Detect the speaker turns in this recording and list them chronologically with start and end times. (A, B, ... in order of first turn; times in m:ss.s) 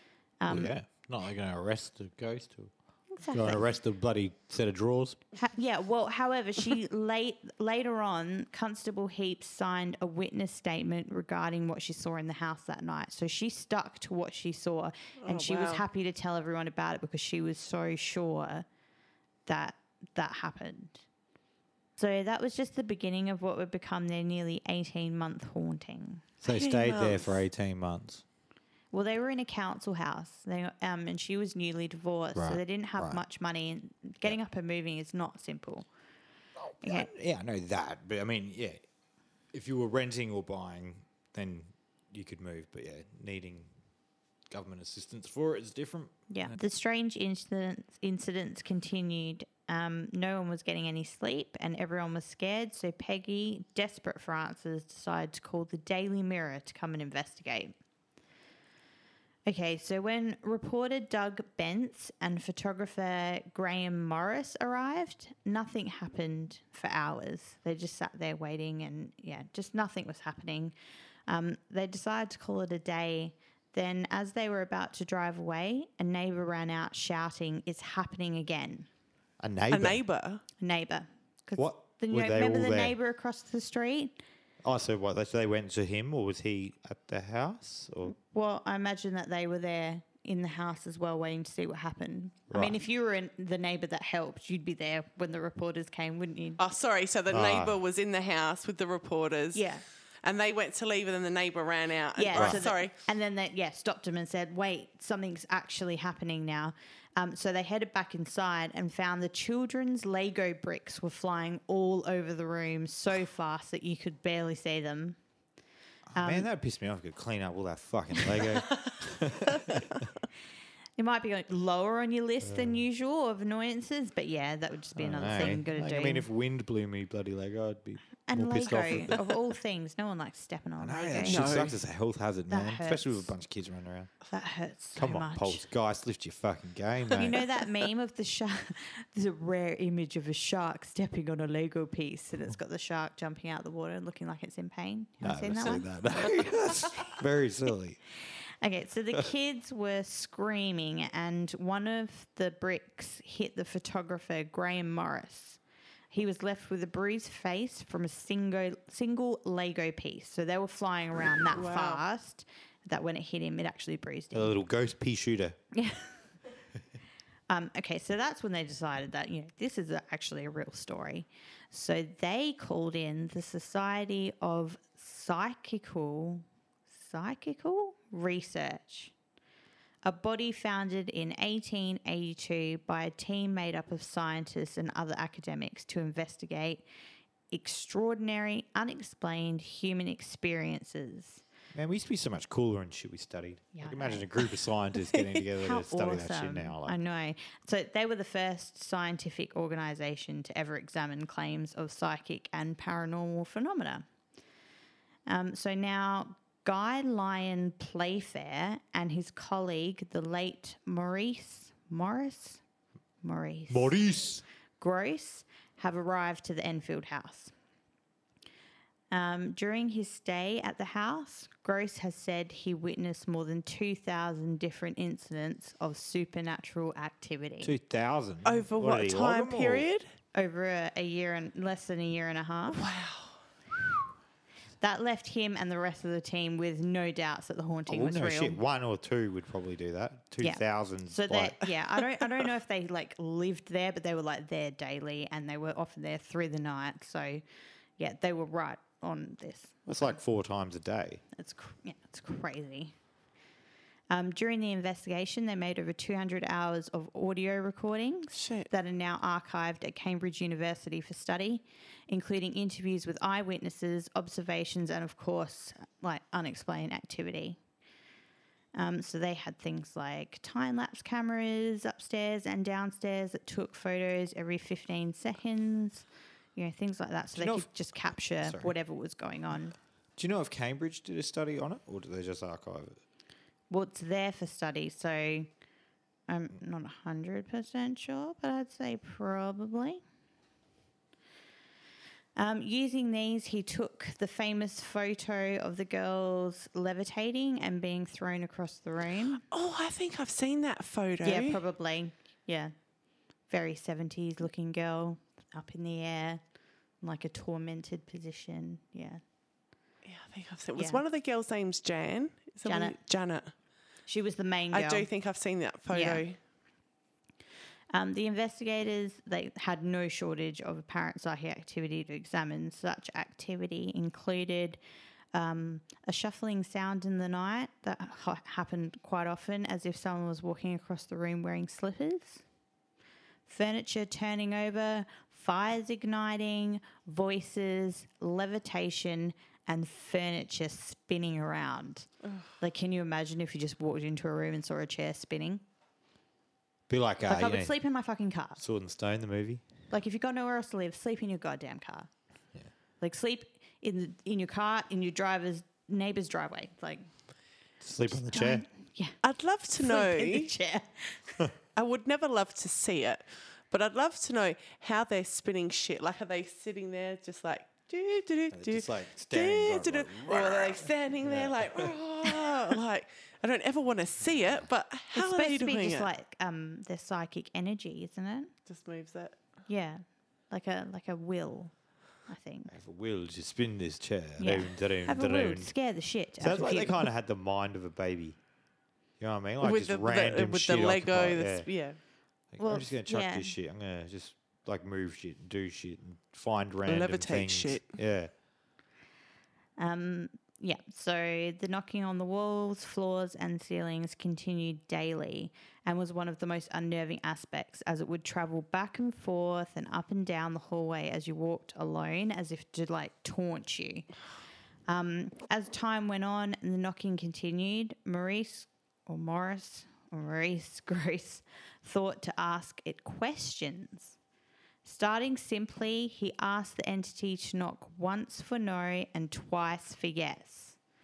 0:00.4-0:00.7 A
0:00.5-0:05.2 B
0:03.1-0:03.6 A
0:05.4-0:18.7 A
0:15.2-0:15.8 C
0:19.5-0:21.0 A
0:22.0-0:26.3 A
0:26.4-0:28.2 B
0:26.5-0:27.4 C
0:28.9-0:35.9 A
0:32.4-0:33.2 B
0:36.6-0:38.8 B
0:36.8-0:37.1 A
0:39.5-0:43.7 B
0:44.5-0:46.5 B
0:46.3-0:57.8 A
0:59.5-1:10.8 A
1:11.3-1:18.9 A
1:19.4-1:20.0 B
1:19.7-1:20.4 C
1:20.6-1:24.2 A
1:21.6-1:23.0 B
1:24.6-1:28.2 B
1:28.2-1:36.6 A
1:32.5-1:32.8 B
1:36.6-1:39.7 C
1:37.3-1:37.8 B
1:39.5-1:39.8 A
1:40.2-1:42.9 C
1:42.2-1:55.2 A
1:42.4-1:42.6 B
1:56.1-2:00.0 B
1:56.2-1:56.5 A
2:01.0-2:06.3 A
2:02.4-2:02.8 B
2:05.0-2:09.2 B
2:08.3-2:11.5 A
2:10.8-2:14.1 B
2:11.2-2:11.8 C
2:12.5-2:13.3 A
2:14.3-2:15.6 A
2:15.0-2:17.3 B
2:17.2-2:25.9 A
2:25.2-2:28.0 B
2:28.6-2:35.6 A
2:36.1-2:44.6 A
2:41.5-2:42.0 C
2:44.3-2:45.6 B
2:45.7-2:46.1 A
2:47.5-2:59.1 A
3:00.0-3:06.8 A
3:07.5-3:11.4 A
3:11.7-3:17.0 B
3:13.7-3:14.3 A
3:15.6-3:24.0 A
3:25.3-3:32.6 A
3:33.2-3:34.0 A
3:33.7-3:34.4 B
3:34.8-3:37.5 A
3:39.1-3:47.7 A
3:47.6-3:49.9 B
3:48.4-3:50.1 C
3:50.3-3:52.9 A
3:52.7-3:53.4 C
3:54.8-3:58.6 A
3:57.9-4:01.6 B
4:00.4-4:07.4 A
4:08.0-4:10.2 A
4:09.9-4:11.2 B
4:11.4-4:12.9 A
4:14.1-4:27.6 A
4:18.3-4:18.7 C
4:28.8-4:39.8 A
4:37.4-4:38.7 B
4:40.2-4:43.0 B
4:43.7-4:45.5 A
4:46.3-4:50.0 A
4:52.4-4:59.4 A
4:59.4-5:01.6 C
5:01.2-5:02.7 A
5:03.5-5:06.4 A
5:07.0-5:09.2 A
5:10.0-5:13.5 C
5:10.8-5:11.0 A
5:12.7-5:13.0 A
5:14.1-5:15.1 A
5:14.7-5:16.4 C
5:15.9-5:16.2 A
5:17.9-5:24.8 A
5:25.3-5:32.4 A
5:33.5-5:42.1 A
5:42.6-5:45.6 A
5:46.9-5:47.8 B
5:47.3-5:48.6 A
5:48.6-5:49.6 B
5:49.9-5:52.1 A
5:53.0-5:57.1 A
5:57.8-5:58.7 B
5:58.3-5:59.2 A
5:59.2-6:00.5 C
5:59.8-6:01.4 A
6:01.8-6:16.1 C
6:08.5-6:11.9 B
6:15.1-6:18.5 A
6:18.7-6:19.4 C
6:19.7-6:21.7 A
6:22.3-6:22.7 A
6:22.7-6:25.7 B
6:24.4-6:27.1 A
6:26.4-6:28.4 B
6:29.2-6:31.7 B
6:29.6-6:32.0 C
6:32.5-6:38.3 B
6:32.6-6:33.5 A
6:36.9-6:38.0 C
6:39.8-6:54.1 A
6:54.9-7:04.2 A
7:04.8-7:10.8 A